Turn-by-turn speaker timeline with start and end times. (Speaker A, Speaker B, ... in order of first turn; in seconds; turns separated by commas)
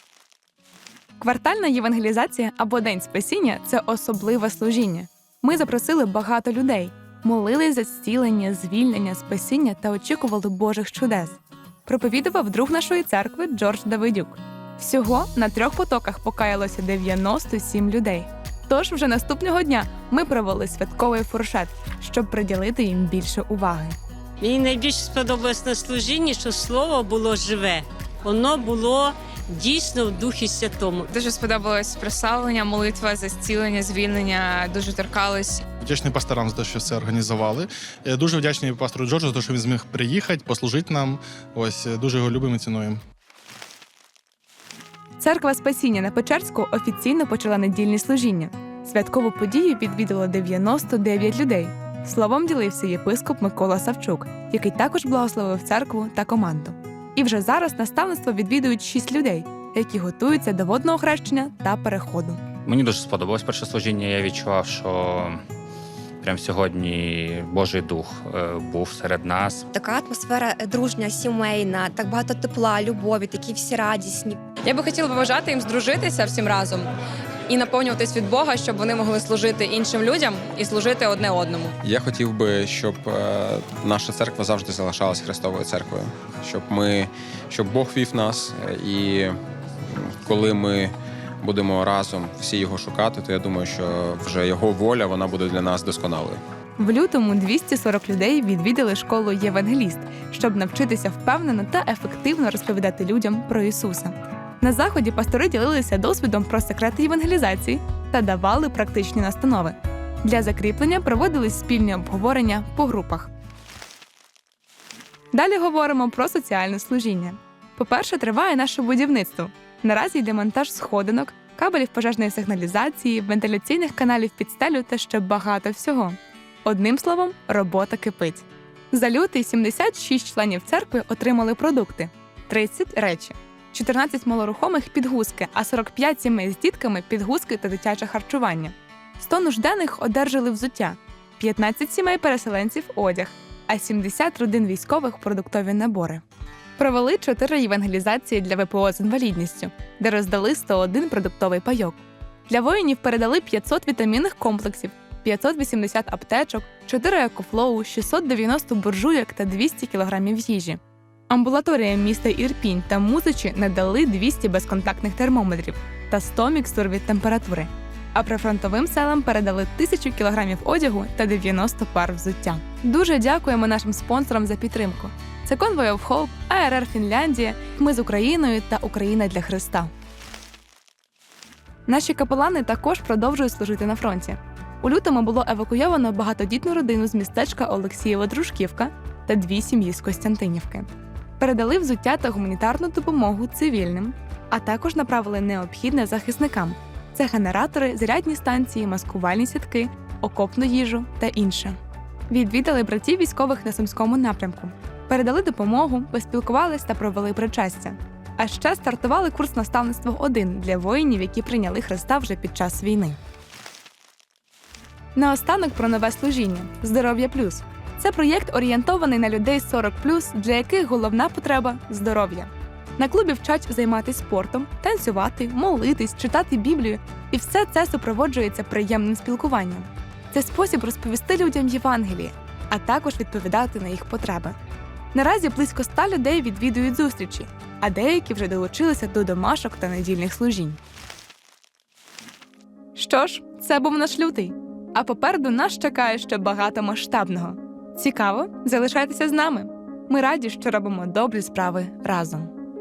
Speaker A: 1.2-24.0, Speaker B: 24.4-31.1, Speaker C: 31.1-35.6, Speaker D: 35.8-43.0, Speaker A: 45.2-62.4, Speaker E: 62.6-65.4, Speaker E: 66.2-69.7, Speaker F: 69.7-74.4, Speaker G: 74.6-76.9, Speaker G: 77.5-81.7, Speaker H: 81.8-89.3, Speaker H: 89.9-96.4, Speaker A: 96.8-113.3, Speaker A: 115.3-146.2, Speaker A: 146.8-179.9, Speaker A: 181.9-201.8, Speaker A: 202.3-213.2, Speaker A: 215.2-234.6, Speaker A: 235.1-240.8, Speaker A: 243.0-252.5